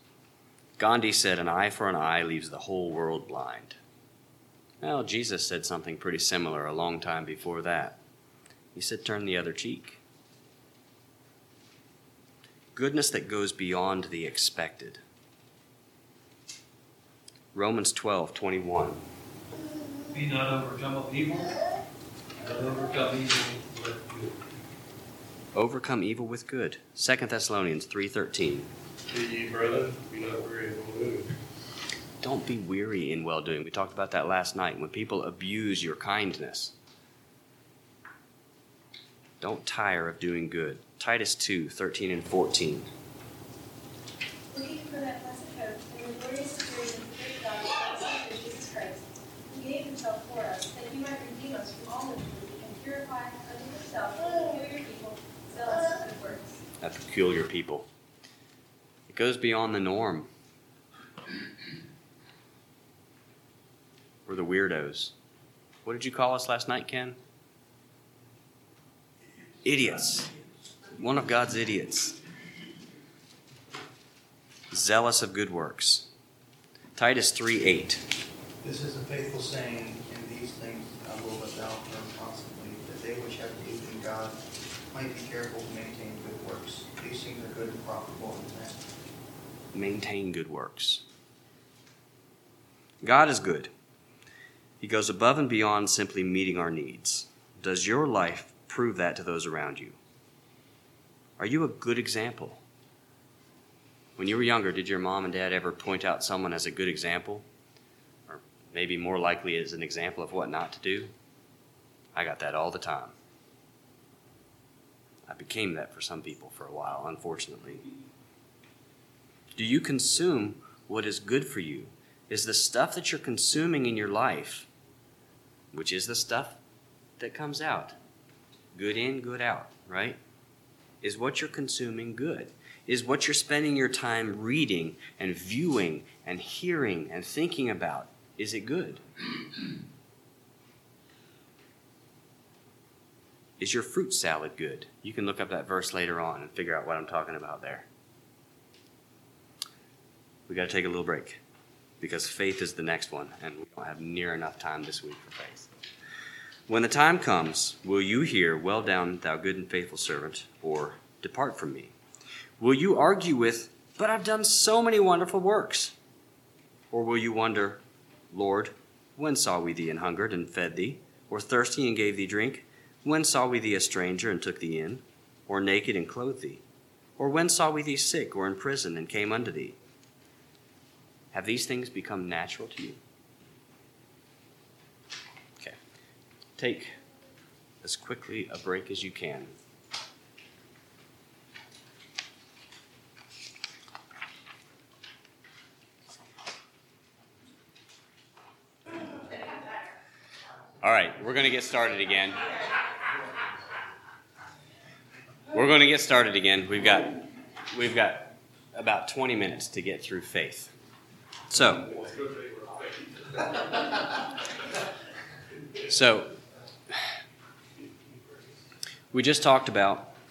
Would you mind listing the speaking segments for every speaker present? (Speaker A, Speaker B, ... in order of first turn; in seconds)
Speaker A: 0.8-3.8, 4.8-8.0, 8.8-10.0, 12.8-15.0, 17.5-19.0, 25.5-28.7, 32.2-36.7, 39.4-42.9, 56.8-57.9, 59.1-60.3, 64.3-65.1, 65.8-67.2, 69.6-70.3, 70.9-72.2, 74.7-76.1, 77.0-78.0, 89.7-91.0, 93.0-93.7, 94.8-100.0, 101.4-102.6, 104.2-107.5, 108.3-111.1, 112.2-113.1, 115.3-117.8, 119.5-124.7, 125.7-126.6, 127.2-128.0, 128.7-130.2, 131.0-139.0, 143.6-147.9, 150.5-151.4, 152.0-155.7, 156.7-161.9, 162.6-165.9, 166.9-176.6, 177.2-179.8, 181.3-183.0, 186.6-187.0, 187.8-189.5, 200.8-202.5, 205.5-210.7, 211.5-211.9, 215.9-216.3, 219.1-220.1
Speaker B: 20.1-21.6, 22.4-24.4
Speaker C: 29.1-31.3
Speaker D: 44.5-56.6
Speaker E: 78.6-84.4, 84.9-88.8